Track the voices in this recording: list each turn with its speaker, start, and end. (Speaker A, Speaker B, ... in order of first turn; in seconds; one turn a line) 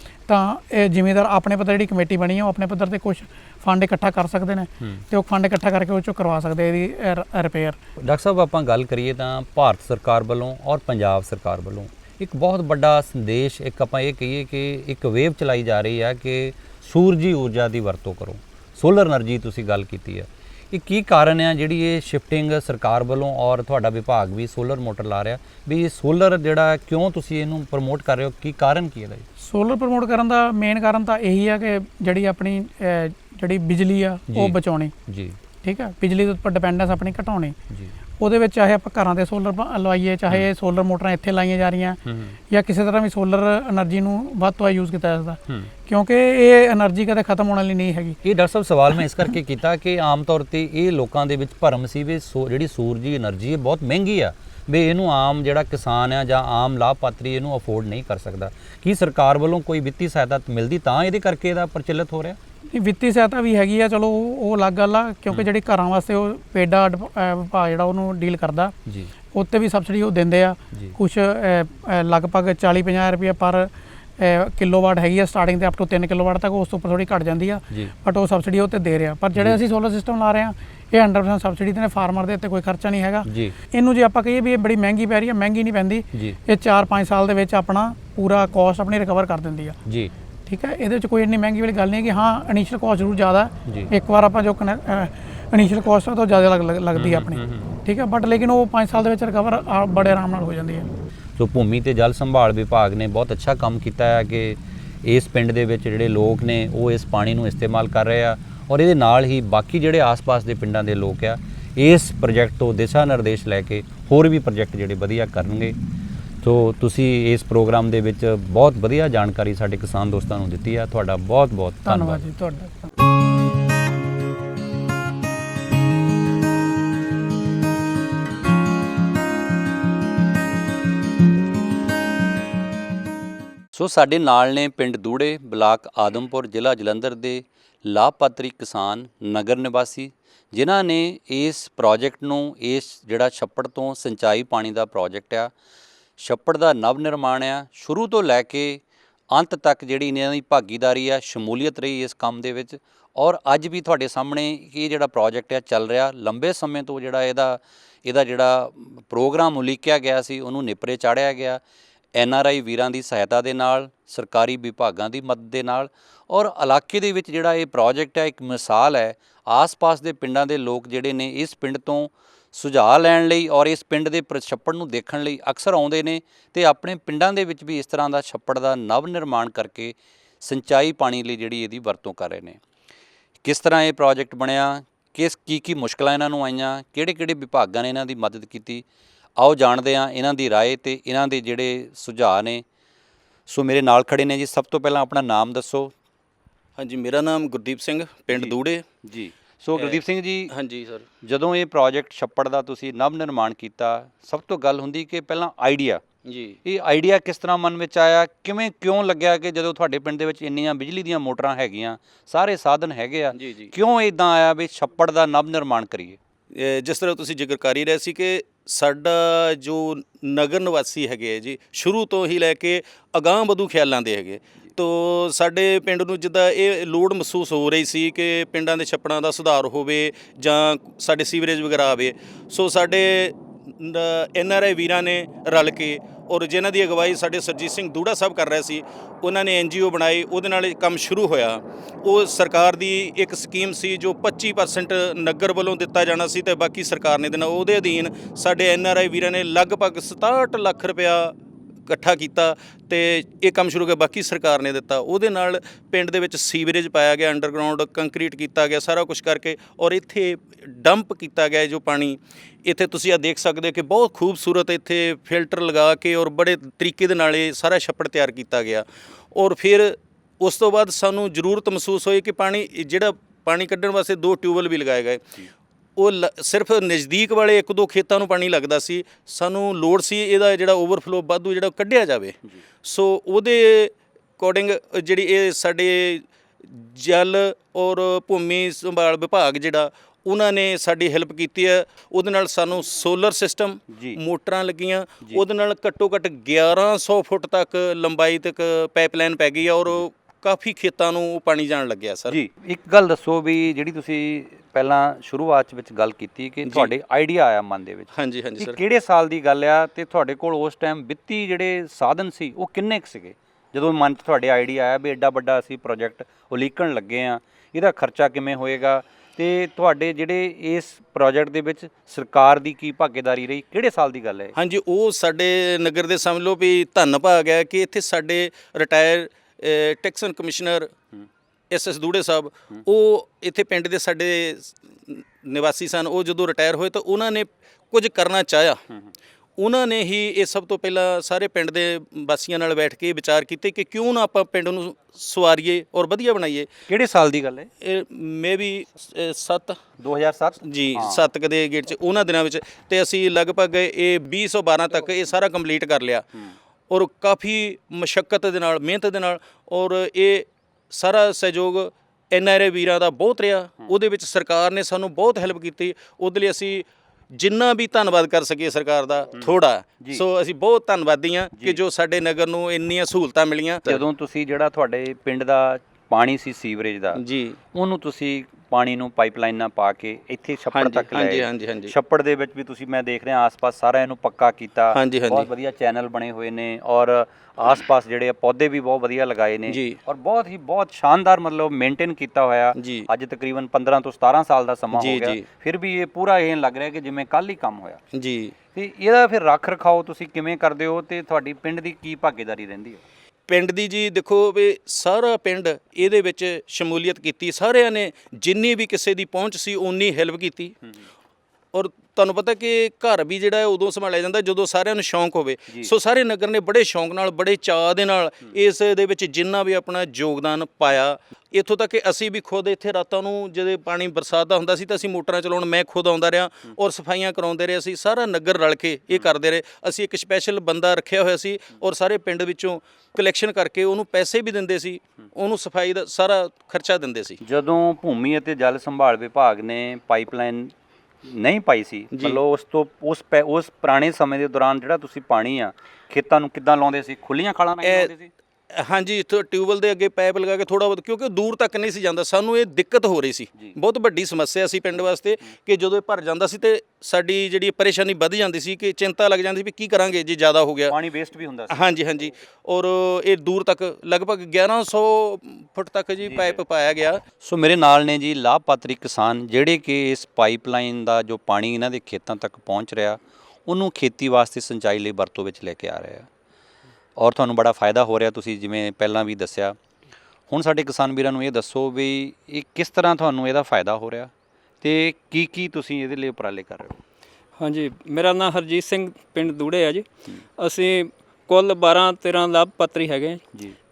Speaker A: 0.3-7.8
Speaker B: 8.0-29.3
Speaker A: 29.4-34.9
Speaker B: 34.3-35.4
Speaker A: 35.6-37.6
Speaker A: 38.2-48.2
Speaker B: 42.1-42.4
Speaker B: 48.2-62.4
Speaker A: 62.7-68.8
Speaker B: 68.9-69.1
Speaker A: 69.3-89.8
Speaker B: 83.3-83.5
Speaker B: 89.9-90.1
Speaker A: 90.5-100.9
Speaker B: 97.0-97.8
Speaker B: 101.4-115.8
Speaker B: 116.4-122.2
Speaker A: 121.8-122.9
Speaker B: 133.7-145.5
Speaker B: 146.2-161.6
Speaker B: 162.2-182.6
Speaker B: 183.4-188.8
Speaker B: 189.4-192.7
Speaker B: 193.5-195.9
Speaker C: 196.8-198.8
Speaker B: 198.3-200.5
Speaker C: 199.8-201.1
Speaker B: 201.2-206.0
Speaker C: 206.3-206.6
Speaker B: 206.7-216.2
Speaker C: 213.3-213.7
Speaker C: 216.5-251.3
Speaker C: 251.9-275.2
Speaker C: 276.0-302.4
Speaker B: 293.9-294.2
Speaker B: 302.3-324.6
Speaker C: 308.2-308.8
Speaker C: 324.6-330.9
Speaker C: 331.7-338.8
Speaker C: 339.6-346.7
Speaker B: 346.9-347.7
Speaker C: 347.8-349.8
Speaker B: 350.0-351.2
Speaker C: 350.6-356.2
Speaker C: 356.9-374.0
Speaker B: 369.3-370.2
Speaker B: 373.9-377.2
Speaker C: 377.2-377.6
Speaker B: 377.7-398.0
Speaker C: 380.7-381.9
Speaker C: 384.9-385.5
Speaker C: 389.7-390.0
Speaker C: 392.8-393.1
Speaker C: 394.9-395.4
Speaker C: 398.1-398.6
Speaker B: 398.7-403.0
Speaker C: 403.5-410.8
Speaker C: 411.7-437.4
Speaker B: 437.4-440.7
Speaker B: 441.2-448.3
Speaker C: 447.8-448.1
Speaker C: 448.7-460.9
Speaker B: 460.9-461.8
Speaker C: 461.7-467.2
Speaker B: 466.3-466.6
Speaker B: 467.4-476.3
Speaker B: 477.2-479.8
Speaker B: 480.5-487.0
Speaker D: 487.6-490.1
Speaker D: 490.6-493.4